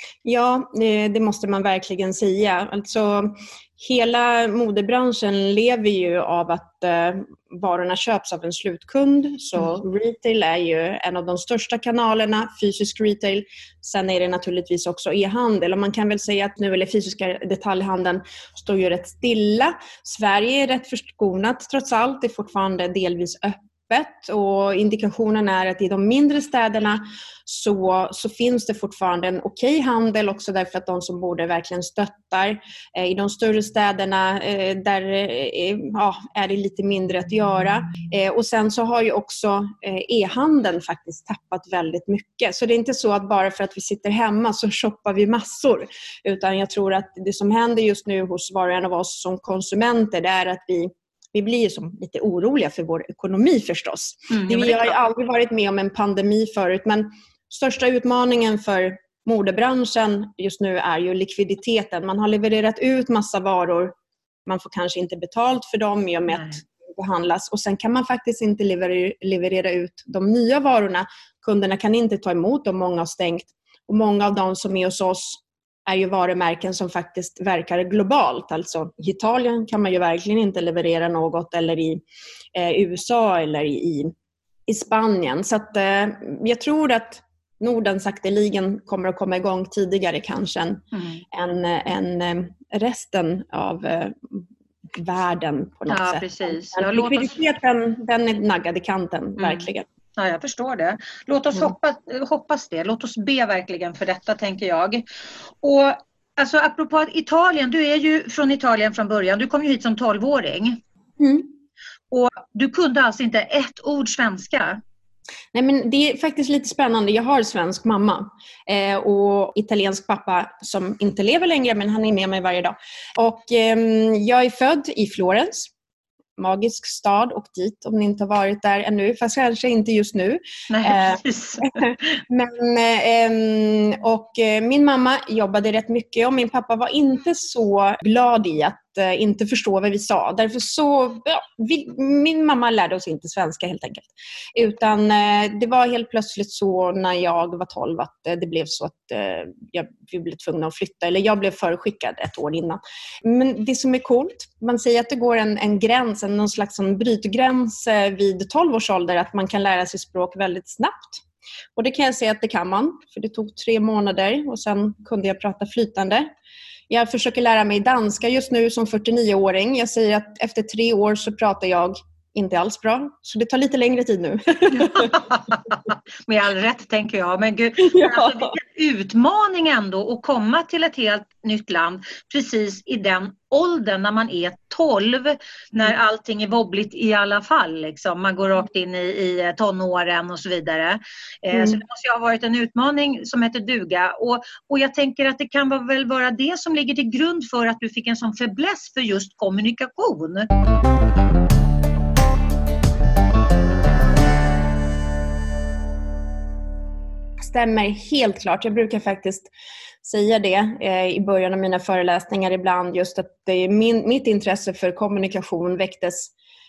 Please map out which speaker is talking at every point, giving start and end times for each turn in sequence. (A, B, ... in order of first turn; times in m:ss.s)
0:00.2-1:03.9 A
0:54.3-0:55.0 B
1:04.5-1:22.0 A
1:22.5-1:24.1 A
1:24.7-1:39.9 A
1:30.9-1:31.2 B
1:35.9-1:37.3 B
1:39.4-1:45.0 B
1:45.6-1:50.8 B
1:51.2-1:51.5 A
1:52.1-1:54.8 B
1:55.5-2:05.7 A
2:06.4-2:41.2 A
2:10.7-2:11.9 B
2:41.8-2:46.3 A
2:46.9-2:55.2 A
2:54.8-3:20.5 B
2:57.8-2:58.5 A
3:11.5-3:11.8 A
3:27.4-3:29.5 A
3:30.0-3:36.3 A